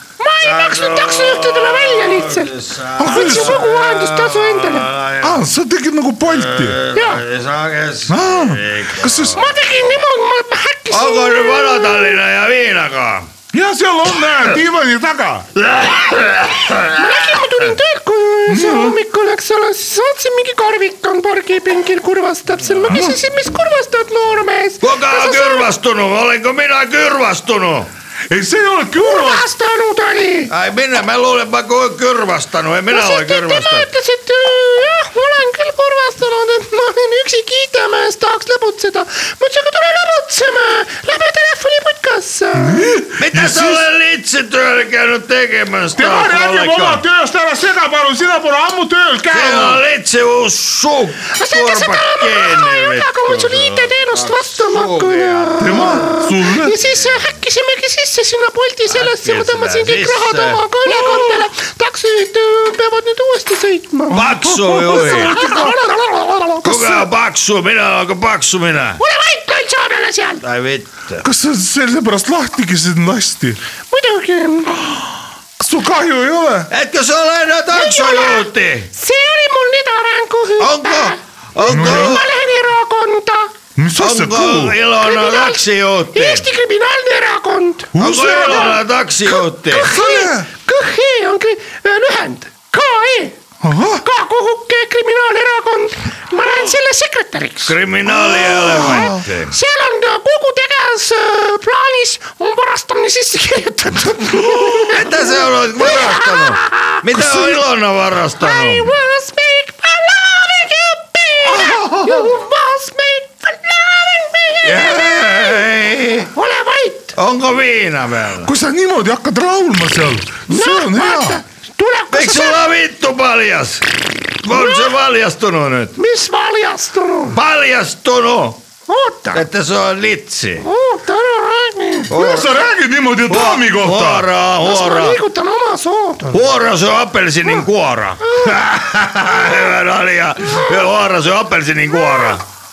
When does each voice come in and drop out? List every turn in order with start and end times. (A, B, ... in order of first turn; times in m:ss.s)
0:00.2-0:02.5 A
0:00.4-0:05.4 B
0:03.0-0:03.6 C
0:03.0-0:04.9 A
0:05.2-0:06.8 C
0:06.2-0:09.6 B
0:06.9-0:07.2 A
0:08.1-0:09.4 C
0:09.3-0:12.2 A
0:10.9-0:13.3 B
0:13.5-0:15.5 C
0:15.6-0:17.1 B
0:16.9-0:25.7 A
0:18.5-0:19.0 C
0:22.9-0:23.2 C
0:24.8-0:27.9 B
0:28.3-0:29.5 C
0:29.0-0:30.5 A
0:30.5-0:33.9 B
0:32.9-0:43.0 A
0:42.5-0:43.9 C
0:43.2-0:47.0 B
0:45.9-0:49.8 C
0:49.3-0:56.2 B
0:51.3-1:06.7 A
0:55.6-0:56.8 C
0:58.9-1:01.4 B
1:04.1-1:05.7 C
1:04.1-1:05.4 B
1:06.6-1:09.0 B
1:06.7-1:07.1 C
1:09.0-1:10.4 A
1:10.4-1:11.2 B
1:11.2-1:13.6 C
1:13.9-1:14.8 A
1:14.8-1:16.7 C
1:16.7-1:18.9 B
1:17.7-1:23.5 A
1:20.6-1:22.2 B
1:21.6-1:22.2 C
1:23.8-1:24.8 C
1:24.0-1:26.5 B
1:24.9-1:28.8 A
1:27.9-1:28.8 C
1:28.0-1:29.9 B
1:29.6-1:33.4 A
1:29.9-1:30.5 C
1:33.6-1:34.0 C
1:34.0-1:47.6 A
1:37.6-1:39.5 B
1:38.7-1:39.2 C
1:44.8-1:48.9 B
1:48.3-1:55.6 A
1:51.5-1:52.2 B
1:54.6-1:56.3 B
1:56.3-1:57.1 A
1:57.1-1:58.5 B
1:58.4-2:01.4 C
2:00.5-2:02.6 A
2:02.1-2:03.9 B
2:04.4-2:06.0 B
2:04.5-2:04.9 A
2:06.0-2:07.4 A
2:07.3-2:08.7 B
2:08.8-2:09.5 A
2:09.3-2:10.7 B
2:10.6-2:12.4 A
2:12.1-2:12.5 B
2:12.1-2:14.3 C
2:13.3-2:15.2 B
2:14.6-2:16.4 A
2:16.3-2:22.4 B
2:18.2-2:18.6 A